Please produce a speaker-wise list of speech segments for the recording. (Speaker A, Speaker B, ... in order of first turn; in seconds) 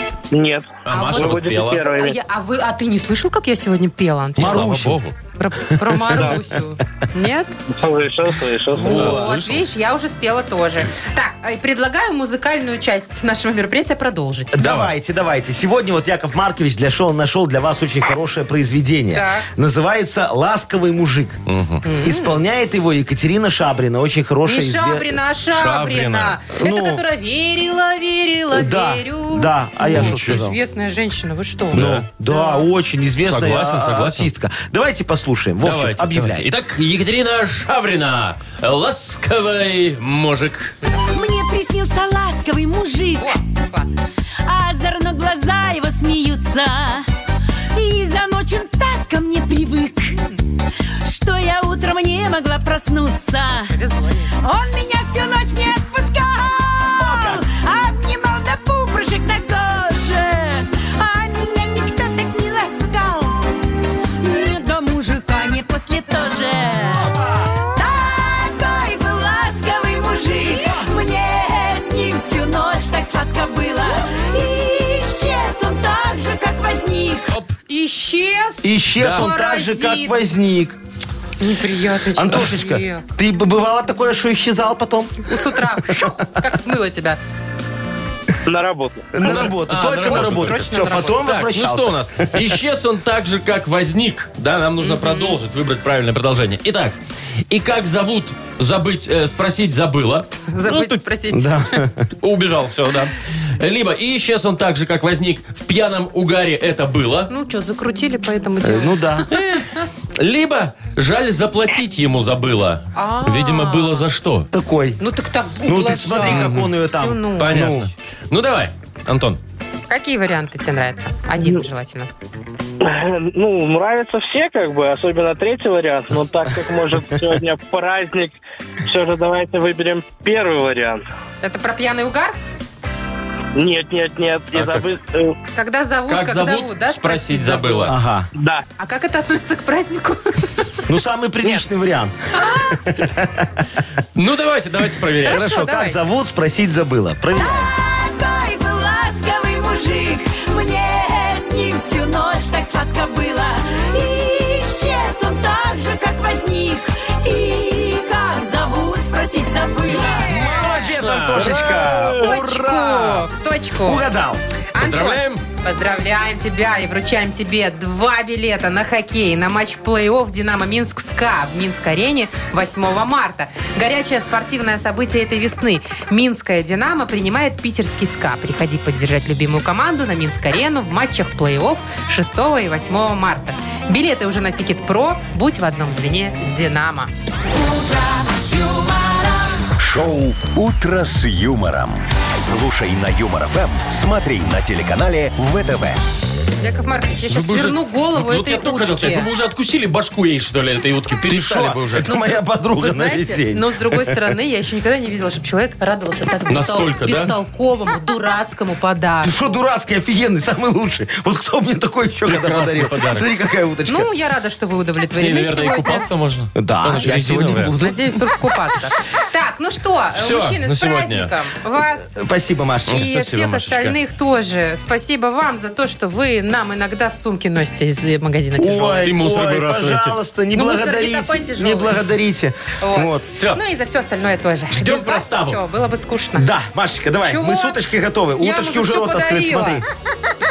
Speaker A: 0.3-2.2, 7.7-9.3, 88.5-89.1, 121.4-121.6, 122.8-131.0, 133.6-135.4, 138.3-138.6
Speaker B: 0.8-1.9, 4.4-5.1, 8.8-9.7, 14.6-14.9, 21.5-21.8, 25.5-26.4, 29.9-30.5, 31.7-32.1, 33.2-34.3, 35.6-40.8, 79.0-79.3, 89.2-97.0, 97.5-101.0, 102.2-107.3, 109.3-109.6, 110.2-114.5, 116.3-116.7, 117.4-119.4, 134.5-134.9, 136.1-137.9, 144.1-145.4, 160.8-162.1, 164.8-165.4, 197.3-202.1, 206.5-207.3, 212.3-213.3, 215.1-217.7, 220.2-221.3, 222.9-224.0, 229.0-230.2, 234.7-235.6
Speaker C: 0.9-4.8, 5.4-7.5, 8.7-14.7, 19.1-19.5, 21.8-22.4, 24.4-32.7, 43.2-44.0, 53.7-54.3, 77.7-80.2, 81.4-83.1, 85.3-87.2, 90.0-91.2, 94.8-95.4, 100.4-101.8, 107.3-109.6, 113.0-114.0, 115.0-117.7, 119.9-122.1, 131.4-132.3, 135.5-137.9, 138.8-140.7, 142.4-142.7, 145.2-146.0, 160.1-164.1, 164.7-187.1, 196.6-199.3, 202.1-209.6, 213.9-216.1, 217.8-222.1, 222.9-229.1, 230.5-232.1, 232.8-236.5, 237.2-237.8, 238.4-239.8
Speaker D: 4.4-5.0, 14.5-21.4, 22.0-25.1, 26.5-27.0, 28.5-30.6, 31.7-36.5, 57.0-57.5, 66.9-67.5, 78.6-80.8, 82.2-86.4, 89.1-92.0, 101.3-102.1, 108.6-109.3, 114.5-115.0, 115.7-117.9, 137.9-138.3, 140.9-143.6, 145.3-147.7, 160.2-163.3, 163.8-164.4, 201.3-204.3, 209.2-214.1, 216.6-218.1, 222.1-223.1, 228.6-233.3, 236.4-239.8
Speaker E: 41.1-43.4, 44.5-47.1, 47.8-50.2, 51.0-53.8, 54.4-63.4, 64.2-67.1, 67.8-77.3, 147.4-160.3, 187.5-189.6
Speaker F: 189.8-196.0